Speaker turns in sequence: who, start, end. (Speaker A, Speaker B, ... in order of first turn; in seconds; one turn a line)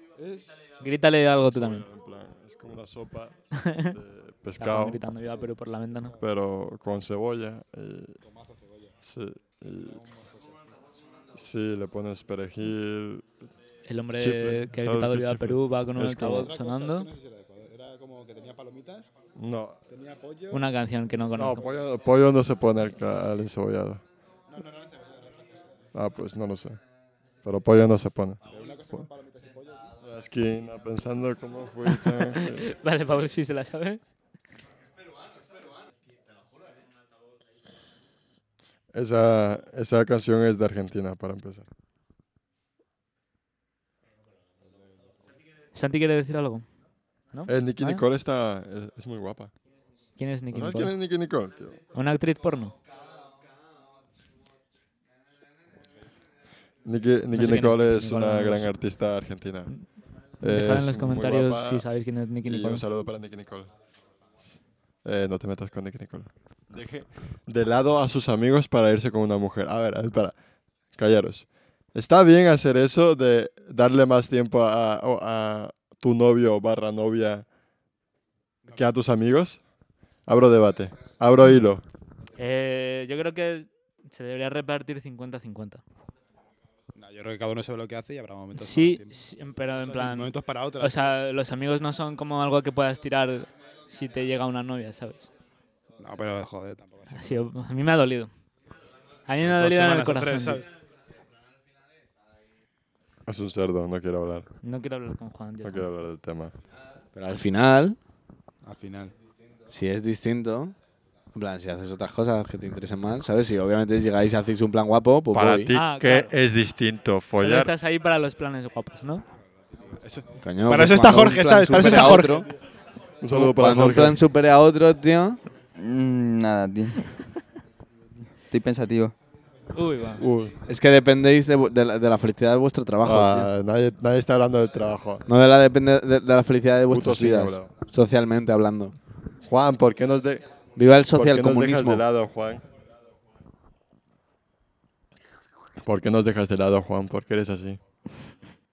Speaker A: 0.1-0.7
Speaker B: 0.8-1.9
Speaker C: 1.3-5.0
Speaker B: 3.5-3.9
Speaker B: 4.6-6.2
Speaker C: 6.2-8.2
Speaker A: 8.2-9.0
Speaker C: 9.0-10.0
Speaker A: 9.8-10.7
Speaker C: 11.3-13.3
Speaker B: 13.8-17.1
Speaker C: 14.2-16.5
Speaker A: 16.2-19.1
Speaker C: 19.4-19.8
Speaker A: 19.9-20.6
Speaker B: 20.5-21.6
Speaker C: 21.3-24.0
Speaker A: 24.5-25.7
Speaker C: 25.9-26.8
Speaker C: 27.4-28.4
Speaker A: 28.4-30.0
Speaker C: 30.0-32.6
Speaker B: 31.9-34.0
Speaker C: 38.9-41.6
Speaker B: 45.7-46.6
Speaker B: 47.3-48.0
Speaker C: 47.5-49.5
Speaker B: 50.2-50.9
Speaker C: 50.5-51.8
Speaker B: 51.9-52.7
Speaker C: 56.8-59.8
Speaker B: 57.3-58.7
Speaker C: 60.4-61.9
Speaker B: 60.4-62.8
Speaker C: 62.5-63.7
Speaker C: 65.0-70.3
Speaker C: 70.9-77.4
Speaker C: 78.7-79.6
Speaker C: 80.2-81.8
Speaker B: 82.4-85.8
Speaker A: 86.9-89.2
Speaker B: 88.5-95.3
Speaker A: 89.8-91.1
Speaker A: 96.0-97.4
Speaker B: 97.1-98.3
Speaker B: 99.3-100.6
Speaker A: 99.3-100.7
Speaker C: 103.3-104.5
Speaker B: 104.6-105.8
Speaker C: 105.6-106.5
Speaker D: 107.1-108.0
Speaker A: 108.6-109.2
Speaker D: 109.7-110.7
Speaker D: 111.3-115.7
Speaker C: 115.3-117.7
Speaker B: 115.7-116.3
Speaker B: 117.4-119.2
Speaker A: 119.9-122.5
Speaker D: 120.4-122.5
Speaker C: 123.2-124.2
Speaker D: 123.3-125.4
Speaker E: 125.8-127.0
Speaker E: 128.5-129.1
Speaker B: 129.7-130.2
Speaker C: 130.2-130.6
Speaker D: 130.7-133.5
Speaker C: 133.0-135.2
Speaker D: 135.3-138.9
Speaker C: 136.9-137.7
Speaker C: 139.4-140.4
Speaker D: 140.8-142.0
Speaker C: 141.1-142.6
Speaker C: 145.8-147.8